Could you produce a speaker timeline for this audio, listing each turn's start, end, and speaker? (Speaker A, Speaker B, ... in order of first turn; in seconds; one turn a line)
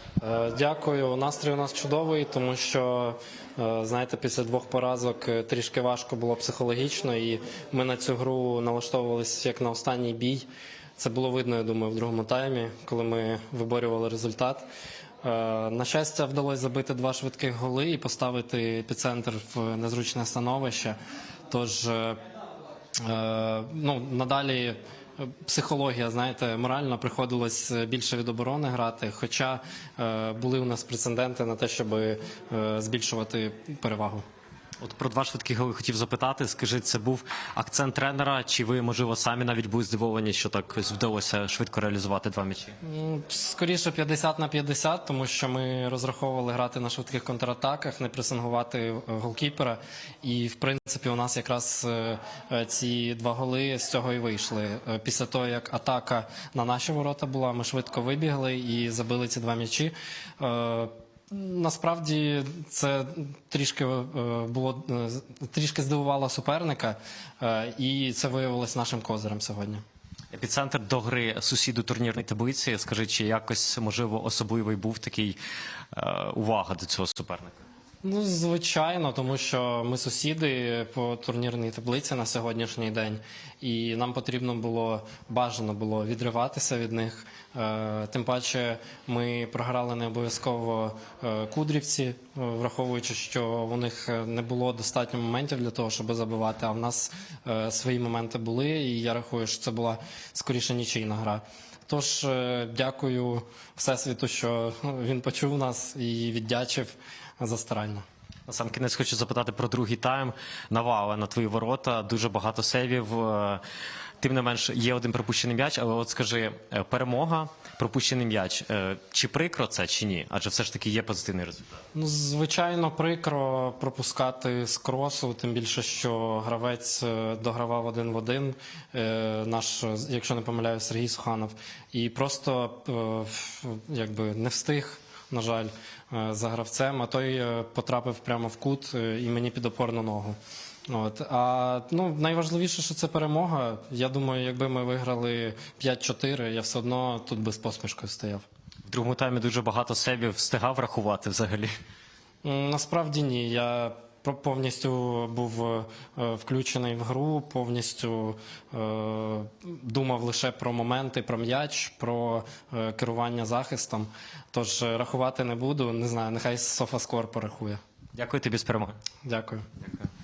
Speaker A: 0.2-10.5
Speaker A: 11.0-14.7
Speaker A: 15.2-21.0
Speaker A: 21.5-22.2
Speaker A: 23.0-34.2
Speaker B: 34.8-42.7
Speaker A: 42.8-69.8
Speaker B: 70.3-75.4
Speaker B: 75.9-77.6
Speaker A: 78.0-108.0
Speaker B: 108.5-113.6
Speaker B: 114.2-121.7
Speaker A: 121.9-140.4
Speaker A: 140.9-148.4
Speaker B: 148.9-151.7
Speaker A: 152.4-167.8
Speaker B: 168.1-168.9
Speaker A: 169.2-169.7